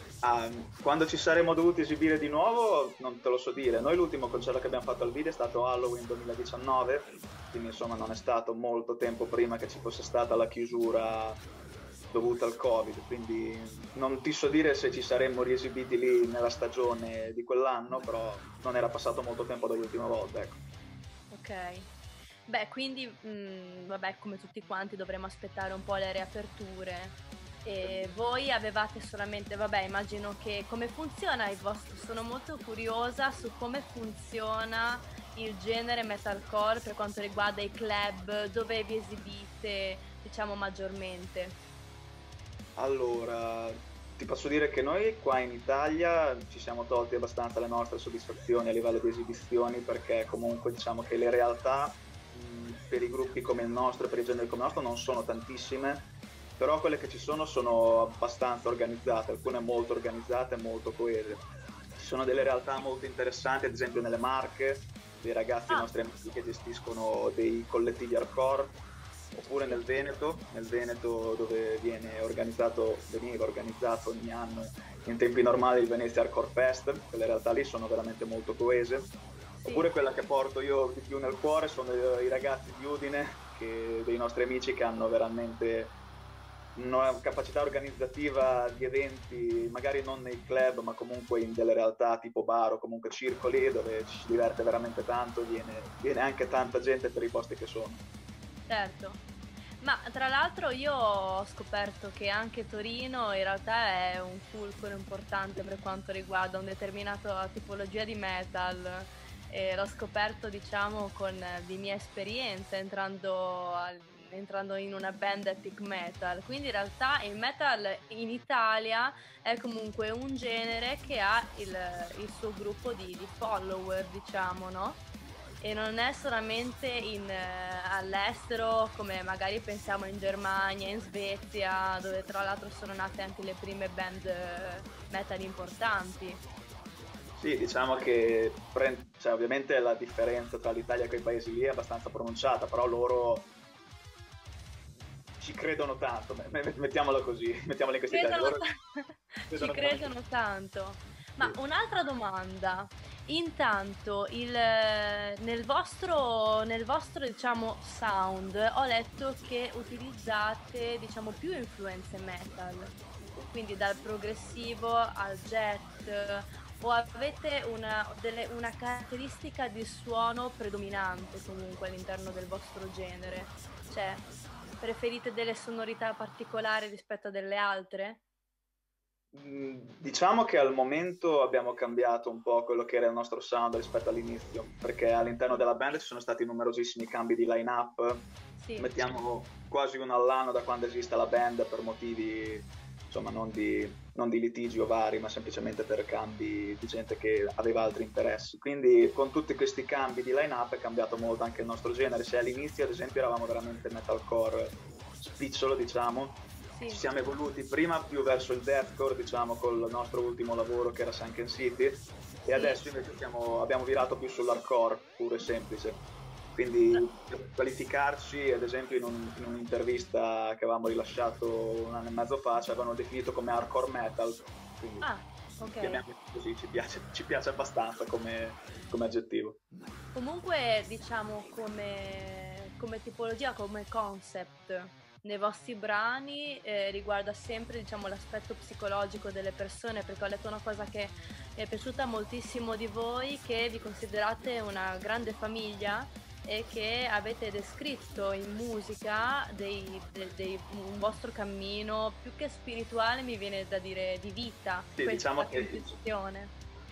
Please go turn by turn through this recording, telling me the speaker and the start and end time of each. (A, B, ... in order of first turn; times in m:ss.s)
0:00.2-0:11.4 A
0:12.1-0:20.6 A
0:21.3-0:21.9 B
0:22.5-0:41.6 B
0:27.8-0:28.1 A
0:42.8-1:01.4 A
1:02.0-1:08.8 A
1:09.3-1:19.1 A
1:09.6-1:10.0 B
1:19.6-1:19.9 B
1:19.7-1:26.0 A
1:26.7-1:38.0 A
1:38.7-1:39.2 B
1:39.8-2:05.0 B
2:05.6-2:16.4 B
2:17.4-2:23.5 A
2:25.4-2:28.6 A
2:28.1-2:54.3 B
2:29.5-2:30.2 A
2:54.8-2:58.2 B
2:59.3-3:36.0 A
3:08.6-3:08.9 B
3:26.7-3:27.0 B
3:32.5-3:32.8 B
3:36.5-3:45.1 A
3:45.0-3:46.0 B
3:45.8-3:49.6 A
3:50.1-4:16.5 B
4:15.0-4:16.0 A